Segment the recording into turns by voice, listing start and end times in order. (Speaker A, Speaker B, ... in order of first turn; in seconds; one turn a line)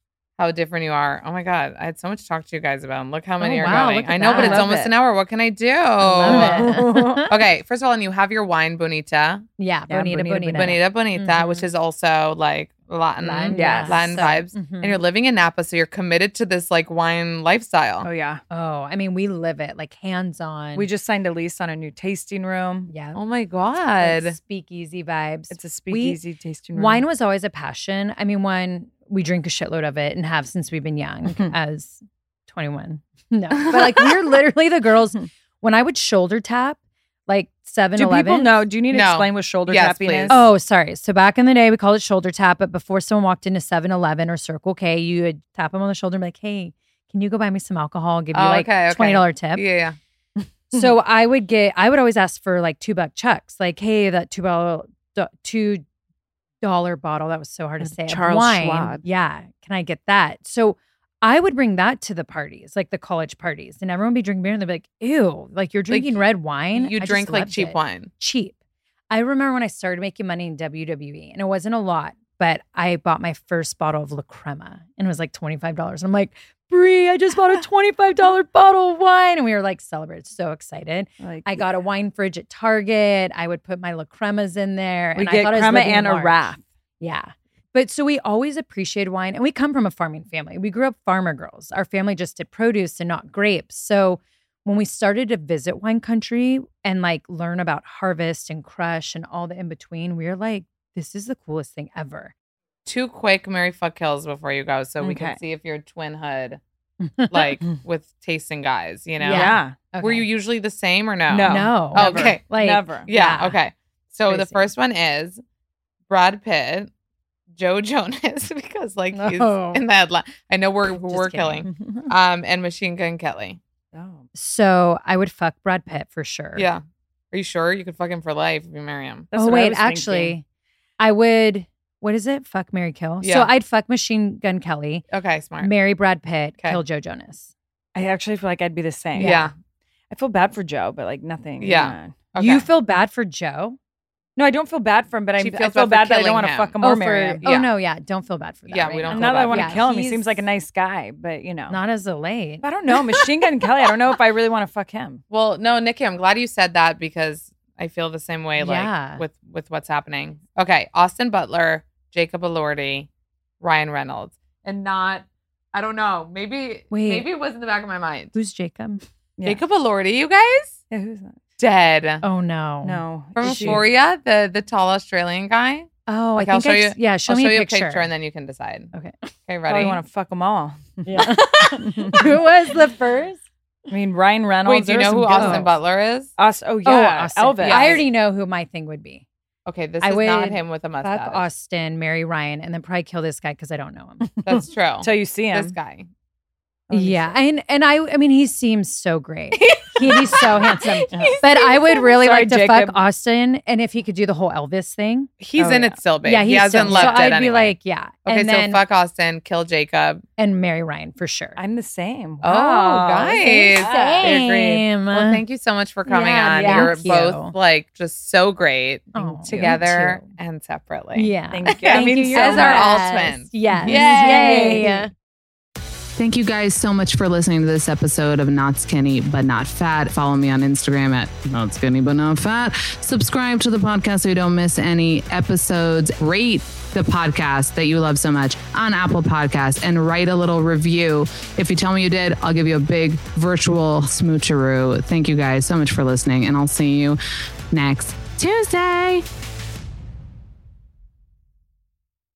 Speaker A: 0.4-6.7
Speaker B: 3.4-4.9
Speaker C: 3.4-4.7
Speaker C: 6.0-7.3
Speaker B: 6.2-7.3
Speaker A: 7.3-9.4
Speaker C: 9.6-11.7
Speaker B: 9.9-10.8
Speaker A: 10.5-18.1
Speaker C: 13.2-15.0
Speaker B: 13.5-14.1
Speaker B: 18.0-18.4
Speaker C: 18.5-20.9
Speaker B: 20.7-22.9
Speaker C: 22.9-23.2
Speaker A: 23.1-24.4
Speaker C: 24.0-26.2
Speaker B: 25.5-27.0
Speaker C: 26.7-38.7
Speaker B: 38.0-40.5
Speaker A: 38.9-40.3
Speaker C: 40.3-49.6
Speaker A: 48.3-50.0
Speaker B: 50.4-50.9
Speaker C: 50.7-55.8
Speaker C: 56.6-68.5
Speaker B: 57.8-59.0
Speaker A: 65.9-68.1
Speaker C: 69.1-102.3
Speaker B: 81.2-81.7
Speaker B: 85.2-86.6
Speaker A: 102.8-106.6
Speaker B: 105.0-105.4
Speaker C: 107.0-107.5
Speaker A: 107.3-112.4
Speaker C: 109.2-110.3
Speaker B: 109.3-109.8
Speaker B: 111.3-113.1
Speaker C: 111.4-113.6
Speaker A: 113.1-115.4
Speaker C: 114.3-114.7
Speaker A: 116.1-116.9
Speaker A: 117.5-123.6
Speaker C: 119.1-119.8
Speaker C: 120.8-121.7
Speaker B: 121.7-122.1
Speaker B: 123.9-124.2
Speaker C: 124.3-126.7
Speaker A: 126.6-129.3
Speaker B: 129.3-130.3
Speaker C: 129.3-130.4
Speaker C: 131.0-135.0
Speaker A: 133.2-133.5
Speaker A: 135.1-135.7
Speaker C: 135.6-137.5
Speaker B: 137.9-139.4
Speaker C: 139.1-139.5
Speaker A: 139.2-139.5
Speaker B: 140.1-142.2
Speaker A: 141.6-142.7
Speaker C: 142.4-143.8
Speaker B: 144.4-147.4
Speaker A: 145.4-146.7
Speaker C: 146.8-150.4
Speaker A: 147.4-147.7
Speaker A: 148.7-149.8
Speaker B: 149.1-151.8
Speaker C: 151.7-152.7
Speaker B: 152.6-155.2
Speaker A: 155.3-163.1
Speaker C: 158.6-159.2
Speaker A: 163.6-168.3
Speaker C: 166.9-167.3
Speaker C: 168.3-169.0
Speaker A: 169.4-170.8
Speaker B: 170.9-171.4
Speaker A: 171.6-172.2
Speaker C: 172.2-173.8
Speaker B: 172.8-173.8
Speaker A: 173.4-178.9
Speaker C: 176.1-178.1
Speaker C: 178.9-179.3
Speaker A: 179.5-180.0
Speaker B: 179.7-182.3
Speaker C: 181.0-183.4
Speaker A: 181.3-181.7
Speaker B: 183.9-185.7
Speaker A: 184.6-186.3
Speaker C: 185.3-185.7
Speaker B: 186.4-188.1
Speaker C: 186.8-189.2
Speaker A: 187.6-188.0
Speaker A: 189.7-191.5
Speaker C: 190.0-194.3
Speaker B: 194.2-195.7
Speaker A: 194.4-196.1
Speaker B: 196.9-197.3
Speaker C: 196.9-205.3
Speaker A: 199.5-201.9
Speaker B: 201.1-201.4
Speaker B: 202.0-203.0
Speaker A: 205.4-210.2
Speaker B: 205.6-206.0
Speaker C: 206.2-208.8
Speaker B: 206.8-207.2
Speaker C: 210.4-211.6
Speaker B: 211.6-214.4
Speaker A: 212.4-224.9
Speaker C: 213.8-215.4
Speaker C: 216.1-217.5
Speaker B: 216.6-217.2
Speaker C: 219.1-220.3
Speaker B: 219.2-219.8
Speaker C: 221.1-225.1
Speaker B: 221.5-223.0
Speaker B: 223.8-225.0
Speaker D: 226.2-247.2
Speaker D: 247.7-249.2